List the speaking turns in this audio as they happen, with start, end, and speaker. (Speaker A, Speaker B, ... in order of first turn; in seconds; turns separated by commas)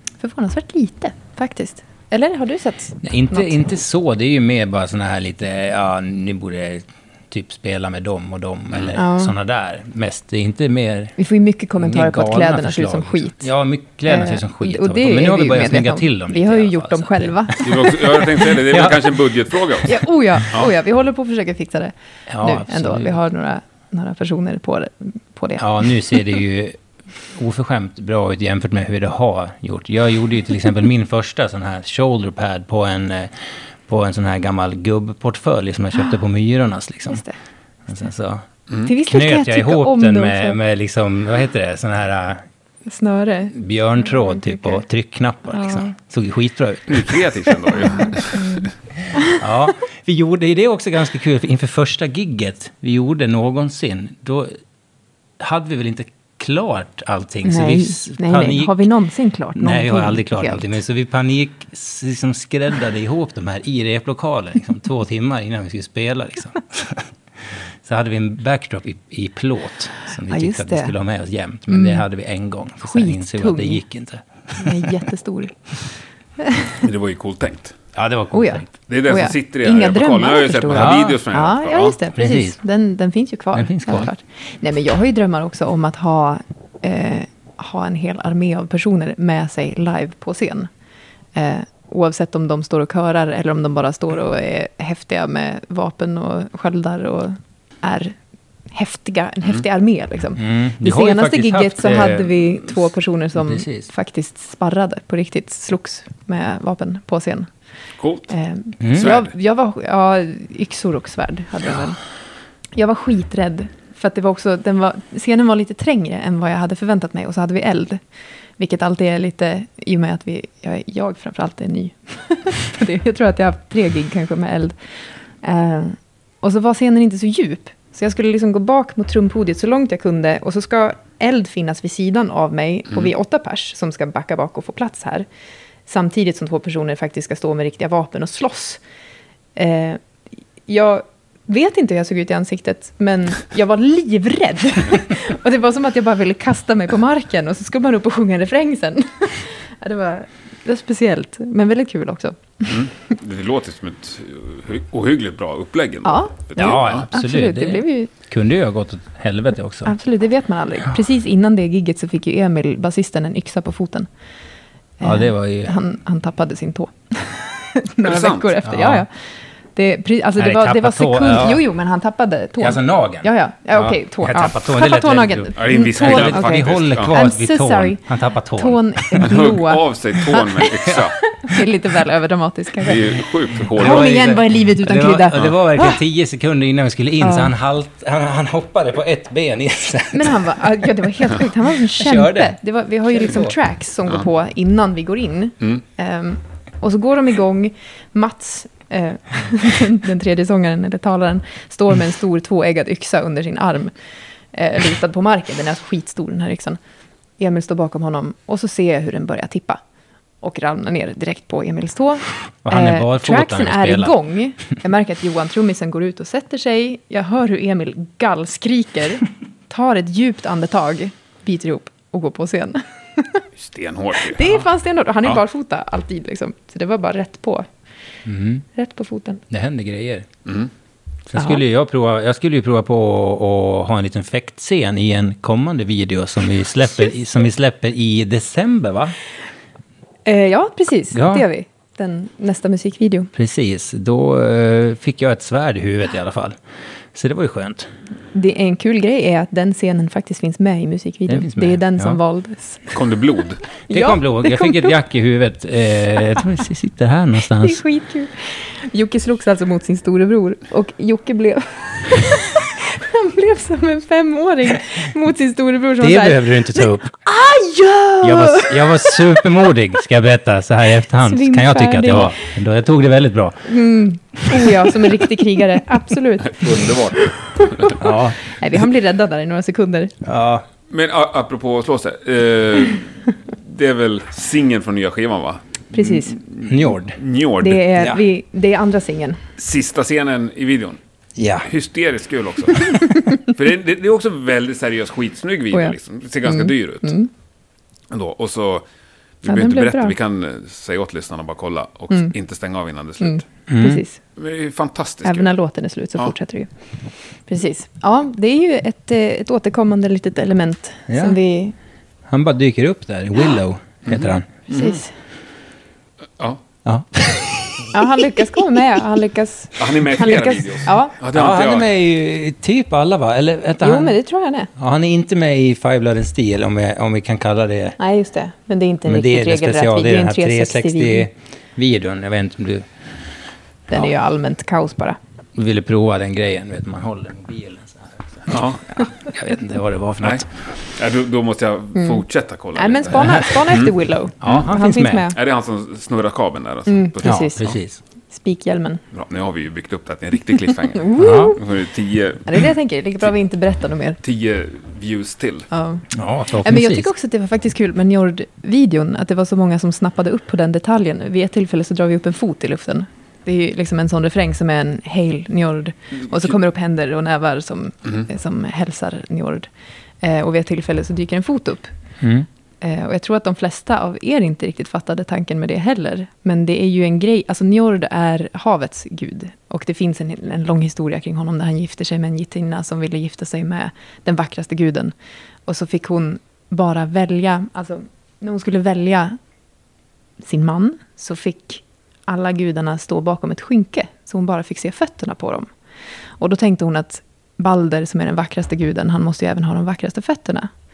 Speaker A: 0.2-3.5, Speaker B: 3.0-11.2, Speaker A: 9.0-9.3, Speaker A: 11.2-13.5, Speaker B: 11.8-19.3, Speaker A: 14.1-17.8, Speaker C: 17.6-20.0, Speaker A: 19.8-26.1, Speaker B: 22.3-23.2, Speaker B: 25.6-26.8, Speaker B: 27.3-37.2, Speaker A: 37.1-37.4, Speaker B: 37.9-42.4, Speaker A: 38.8-40.6, Speaker A: 42.9-43.6, Speaker B: 43.5-47.2, Speaker A: 44.4-44.8, Speaker A: 45.6-45.9, Speaker C: 46.9-48.7, Speaker A: 48.3-49.4, Speaker B: 49.0-54.6, Speaker B: 55.4-58.8, Speaker A: 57.5-60.8, Speaker B: 59.5-67.1, Speaker B: 67.8-74.9, Speaker A: 70.3-70.9, Speaker A: 71.7-72.0, Speaker A: 72.8-73.8, Speaker A: 74.6-75.6, Speaker A: 76.4-76.8, Speaker C: 76.8-77.8, Speaker B: 78.0-78.7, Speaker A: 78.3-90.7, Speaker C: 78.9-82.0, Speaker B: 80.7-81.2, Speaker B: 82.2-82.6, Speaker B: 83.5-84.1, Speaker A: 91.3-98.2, Speaker A: 98.7-107.5, Speaker B: 100.4-102.7, Speaker B: 103.4-103.9, Speaker C: 108.0-108.3, Speaker A: 108.3-112.0, Speaker B: 108.8-109.1, Speaker C: 108.9-109.3, Speaker A: 112.8-118.0, Speaker A: 118.6-124.8, Speaker A: 125.4-135.3, Speaker A: 135.9-138.8, Speaker A: 139.6-140.0, Speaker A: 140.7-152.9, Speaker C: 152.7-157.0, Speaker A: 156.1-158.1, Speaker B: 156.6-159.9, Speaker A: 159.8-164.1, Speaker A: 165.0-169.1, Speaker B: 165.0-165.8, Speaker C: 168.0-168.6, Speaker B: 168.7-169.1, Speaker A: 169.8-180.6, Speaker B: 170.4-171.6, Speaker B: 172.6-179.3, Speaker C: 175.6-177.1, Speaker C: 179.2-181.2, Speaker A: 181.4-183.0, Speaker C: 182.8-184.1, Speaker B: 183.7-190.4, Speaker A: 183.7-186.0, Speaker A: 187.2-187.5, Speaker A: 190.1-203.9, Speaker B: 192.0-192.6, Speaker B: 193.1-193.6, Speaker A: 204.5-206.8, Speaker A: 207.4-209.8, Speaker A: 210.4-223.5, Speaker B: 212.7-214.2, Speaker C: 223.6-224.4, Speaker A: 224.2-227.7, Speaker B: 228.3-228.7, Speaker A: 228.8-229.4, Speaker B: 229.5-230.3, Speaker B: 231.3-239.2, Speaker A: 240.3-243.3, Speaker B: 241.1-241.4, Speaker B: 243.3-246.6, Speaker B: 247.1-247.9, Speaker A: 248.3-252.9, Speaker B: 251.3-252.2, Speaker C: 252.9-253.6, Speaker A: 253.9-254.9, Speaker B: 253.9-257.8, Speaker A: 257.5-269.5, Speaker B: 266.0-267.1, Speaker B: 268.2-273.7, Speaker A: 271.2-272.5, Speaker A: 273.7-280.1, Speaker C: 276.5-277.9, Speaker B: 278.0-278.5, Speaker B: 280.2-280.7, Speaker C: 280.9-287.9, Speaker A: 285.9-286.4, Speaker B: 286.6-287.2, Speaker A: 287.6-289.4, Speaker B: 287.9-288.2, Speaker C: 289.6-291.0, Speaker B: 291.4-291.7, Speaker C: 291.6-297.1, Speaker A: 292.9-293.3, Speaker A: 295.7-297.3, Speaker C: 298.1-298.9, Speaker C: 299.4-303.4, Speaker A: 299.4-300.1, Speaker A: 303.2-304.2, Speaker B: 303.7-304.0, Speaker C: 304.4-305.6, Speaker A: 305.2-306.7, Speaker A: 307.5-311.8, Speaker B: 311.1-311.4, Speaker B: 312.3-314.5, Speaker C: 314.1-315.0, Speaker A: 314.7-315.1, Speaker B: 316.9-318.6, Speaker A: 317.9-321.1, Speaker C: 319.8-321.9, Speaker B: 321.3-324.2, Speaker A: 323.8-324.7, Speaker B: 324.8-328.0, Speaker A: 328.0-331.3, Speaker B: 329.1-332.9, Speaker A: 333.9-335.2, Speaker B: 335.6-340.5, Speaker C: 338.5-338.8, Speaker C: 340.2-343.9, Speaker A: 342.0-345.4, Speaker B: 343.2-343.5, Speaker B: 344.4-345.3, Speaker C: 345.3-347.7, Speaker A: 346.9-347.7, Speaker B: 347.2-348.0, Speaker A: 348.3-349.0, Speaker C: 349.1-352.6, Speaker A: 350.9-351.7, Speaker B: 351.2-351.6, Speaker A: 352.5-354.2, Speaker C: 354.2-355.7, Speaker A: 355.7-356.0, Speaker B: 356.1-357.1, Speaker A: 356.6-369.7, Speaker A: 370.2-371.9, Speaker B: 372.2-372.5, Speaker A: 372.8-385.1, Speaker A: 385.7-389.4, Speaker A: 390.4-395.7, Speaker A: 396.4-400.7